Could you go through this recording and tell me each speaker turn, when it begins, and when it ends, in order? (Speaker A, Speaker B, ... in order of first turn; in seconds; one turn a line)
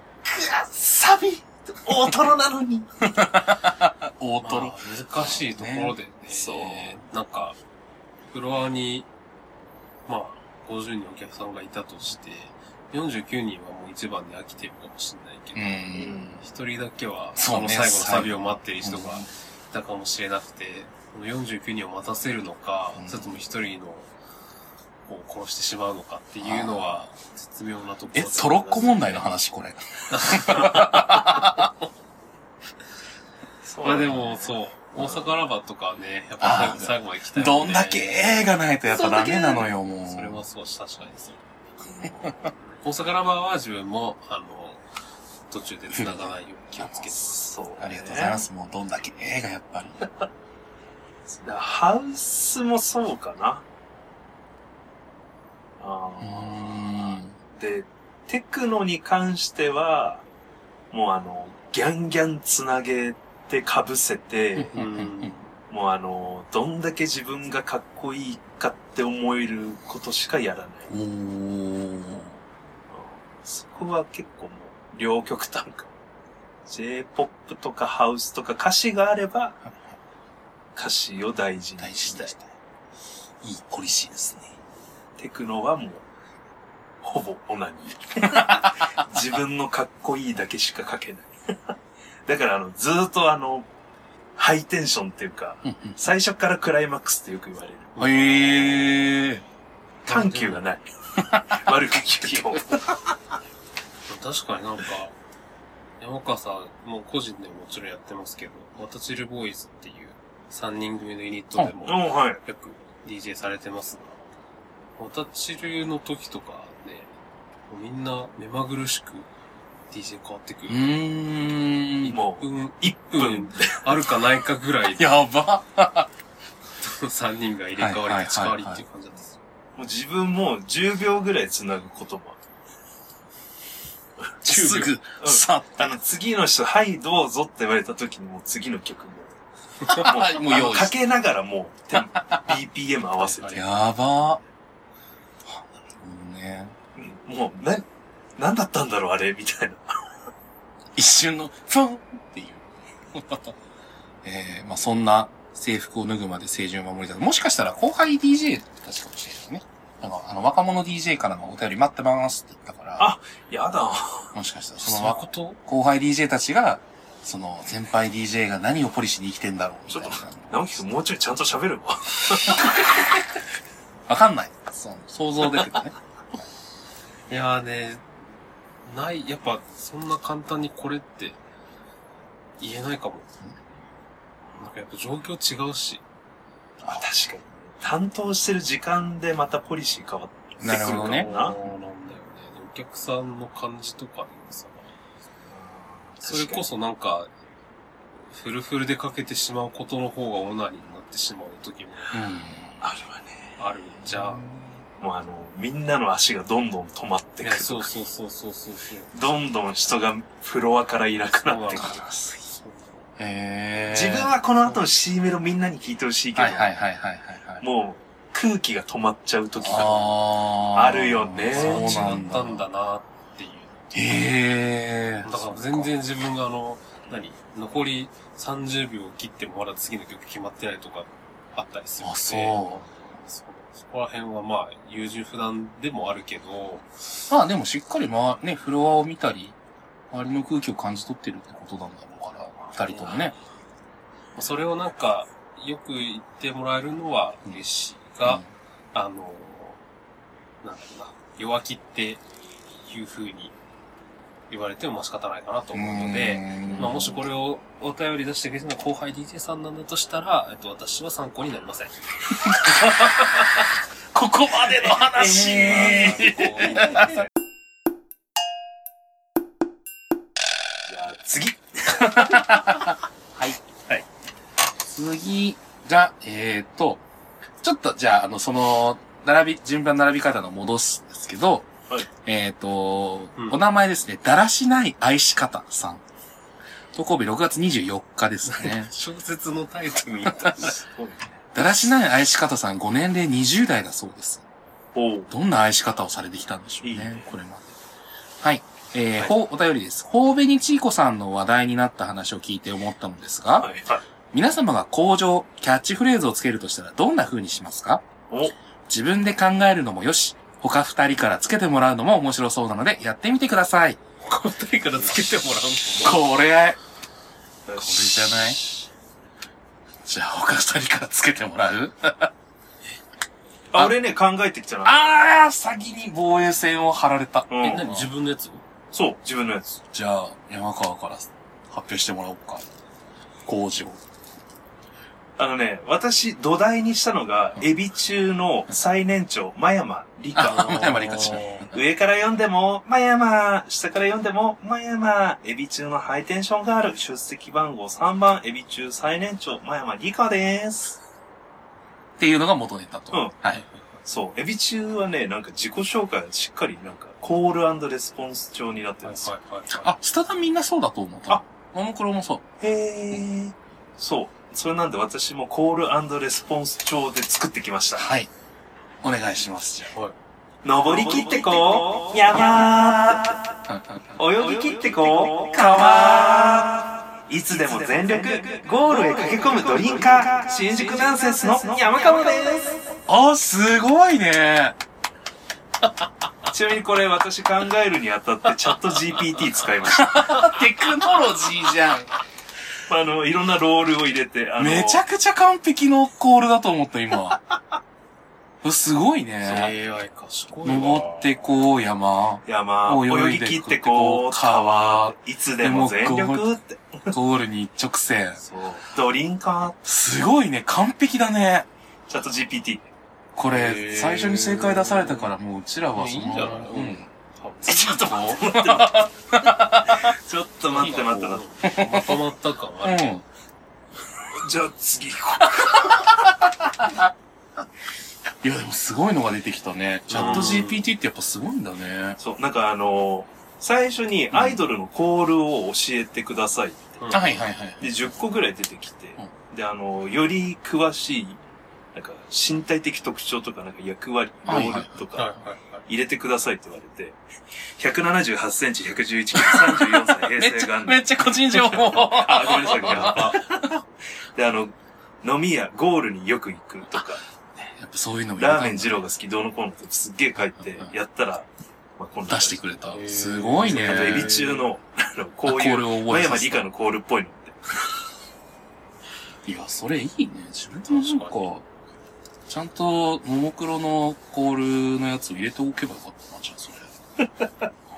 Speaker A: 0.2-3.3
Speaker B: 3.1-6.8
Speaker C: 4.4-7.6
Speaker C: 8.3-9.1
Speaker C: 10.1-24.1
Speaker B: 15.6-16.4
Speaker A: 15.9-16.4
Speaker B: 17.4-19.3
Speaker B: 23.0-23.4
Speaker C: 25.1-29.2
Speaker B: 26.4-27.1
Speaker B: 28.1-31.7
Speaker C: 30.1-31.6
Speaker A: 33.6-34.6
Speaker C: 33.8-38.3
Speaker B: 36.4-40.4
Speaker A: 38.9-39.7
Speaker C: 40.0-41.4
Speaker C: 42.6-44.8
Speaker C: 45.5-47.5
Speaker B: 45.9-47.0
Speaker A: 47.2-48.5
Speaker B: 47.8-50.1
Speaker A: 51.3-53.6
Speaker A: 55.8-60.2
Speaker B: 56.2-57.4
Speaker A: 60.9-64.8
Speaker B: 64.6-65.3
Speaker C: 64.7-65.5
Speaker A: 65.7-70.9
Speaker B: 70.9-72.4
Speaker A: 72.9-75.9
Speaker A: 76.7-79.6
Speaker A: 80.8-82.3
Speaker B: 81.8-82.5
Speaker B: 83.4-84.5
Speaker A: 85.2-86.0
Speaker A: 87.0-91.8
Speaker B: 88.3-89.0
Speaker A: 92.3-93.7
Speaker A: 94.4-98.9
Speaker B: 95.7-96.0
Speaker B: 98.0-99.4
Speaker C: 98.0-99.0
Speaker A: 100.1-103.0
Speaker C: 100.1-100.6
Speaker B: 101.3-101.6
Speaker C: 104.1-105.1
Speaker C: 106.0-114.2
Speaker A: 111.8-112.4
Speaker C: 115.0-117.1
Speaker C: 117.7-119.3
Speaker C: 119.9-120.9
Speaker B: 120.7-122.2
Speaker C: 122.0-125.2
Speaker A: 122.1-123.8
Speaker B: 125.0-126.1
Speaker C: 126.8-129.4
Speaker B: 127.8-128.8
Speaker A: 129.8-132.4
Speaker B: 134.4-136.0
Speaker C: 134.5-134.9
Speaker A: 135.2-143.7
Speaker B: 139.9-140.9
Speaker B: 142.0-142.6
Speaker C: 143.2-143.7
Speaker B: 143.5-144.4
Speaker B: 145.5-146.8
Speaker A: 147.0-147.8
Speaker A: 148.4-150.0
Speaker B: 151.0-153.6
Speaker B: 154.2-163.1
Speaker A: 163.0-164.3
Speaker B: 164.3-170.8
Speaker C: 164.8-165.6
Speaker A: 169.9-172.8
Speaker B: 172.3-173.2
Speaker B: 174.1-176.5
Speaker C: 177.3-178.1
Speaker C: 178.9-181.4
Speaker C: 182.6-183.3
Speaker C: 184.6-186.0
Speaker B: 186.8-187.1
Speaker A: 186.9-191.6
Speaker B: 190.6-191.7
Speaker C: 190.7-194.9
Speaker A: 195.5-196.7
Speaker C: 196.2-197.3
Speaker C: 198.3-202.2
Speaker B: 202.1-202.8
Speaker A: 202.8-203.6
Speaker C: 203.6-204.4
Speaker B: 204.0-204.8
Speaker A: 205.0-207.9
Speaker C: 207.4-209.1
Speaker A: 209.1-212.1
Speaker C: 211.4-213.1
Speaker B: 211.8-212.4
Speaker B: 213.2-214.3
Speaker A: 213.9-216.8
Speaker B: 216.3-217.7
Speaker A: 217.6-220.2
Speaker B: 219.6-222.6
Speaker C: 219.7-220.1
Speaker A: 220.7-222.1
Speaker C: 221.5-223.8
Speaker B: 223.9-225.9
Speaker C: 225.2-236.9
Speaker B: 232.0-232.9
Speaker B: 237.3-239.6
Speaker B: 240.1-243.3
Speaker C: 242.9-243.3
Speaker C: 244.4-248.4
Speaker C: 248.9-249.8
Speaker C: 250.6-252.2
Speaker C: 252.8-253.5
Speaker C: 254.5-261.9
Speaker B: 255.7-257.2
Speaker B: 262.4-267.2
Speaker A: 265.1-266.2
Speaker C: 265.3-267.2
Speaker A: 270.9-272.8
Speaker B: 271.9-273.8
Speaker B: 274.8-277.0
Speaker B: 277.6-281.7
Speaker B: 282.2-286.0
Speaker B: 286.9-288.9
Speaker C: 288.5-290.9
Speaker B: 290.4-290.7
Speaker A: 290.8-291.3
Speaker B: 291.6-294.4
Speaker A: 294.9-295.3
Speaker B: 295.3-297.8
Speaker A: 296.8-297.3
Speaker B: 298.4-303.7
Speaker A: 303.6-304.0
Speaker B: 304.3-308.0
Speaker B: 308.9-314.0
Speaker C: 314.2-316.2
Speaker B: 316.0-316.8
Speaker A: 317.7-318.7
Speaker B: 317.8-318.6
Speaker B: 320.1-322.3
Speaker A: 323.7-325.0
Speaker B: 324.8-328.1
Speaker A: 327.5-327.9
Speaker C: 327.6-328.6
Speaker A: 328.9-329.7
Speaker B: 329.9-332.7
Speaker B: 333.5-334.0
Speaker A: 335.4-351.0
Speaker B: 340.4-341.8
Speaker C: 340.5-341.7
Speaker B: 352.2-353.6
Speaker A: 354.1-359.3
Speaker C: 359.0-359.9
Speaker B: 359.7-362.4
Speaker A: 362.6-368.1
Speaker B: 368.0-368.3
Speaker B: 369.0-369.9
Speaker A: 370.6-373.6
Speaker B: 373.7-374.1
Speaker A: 374.2-382.8
Speaker B: 375.7-376.7
Speaker B: 383.1-384.8
Speaker A: 386.5-390.6
Speaker B: 389.9-392.1
Speaker A: 392.9-395.0
Speaker B: 394.6-397.4
Speaker B: 398.6-399.7
Speaker C: 399.4-401.4
Speaker B: 400.6-406.5
Speaker A: 402.5-407.1
Speaker B: 407.1-408.4
Speaker A: 408.5-409.8
Speaker B: 409.9-411.7
Speaker A: 412.1-412.9
Speaker B: 413.4-417.1
Speaker C: 413.5-415.3
Speaker C: 415.9-418.3
Speaker B: 417.6-420.1
Speaker A: 417.8-418.9
Speaker A: 419.9-421.4
Speaker B: 420.8-422.2
Speaker C: 420.8-423.2
Speaker B: 422.8-423.2
Speaker A: 424.3-426.2
Speaker B: 425.4-427.1
Speaker B: 428.4-432.2
Speaker C: 430.1-430.9
Speaker A: 430.1-430.6
Speaker A: 432.2-437.2
Speaker B: 434.3-434.6
Speaker C: 437.0-437.4
Speaker B: 437.1-437.9
Speaker A: 437.8-441.4
Speaker A: 441.9-445.3
Speaker B: 444.5-445.0
Speaker C: 445.1-445.9
Speaker A: 445.9-447.2
Speaker A: 447.8-453.8
Speaker B: 449.3-453.4
Speaker C: 452.7-453.4
Speaker A: 454.4-457.2
Speaker B: 457.6-459.0
Speaker A: 458.4-462.7
Speaker B: 460.6-460.9
Speaker B: 462.3-464.4
Speaker C: 462.9-464.7
Speaker A: 463.7-467.6
Speaker B: 465.5-466.7
Speaker B: 469.4-471.6
Speaker C: 470.9-471.5
Speaker B: 472.5-476.9
Speaker A: 477.2-477.5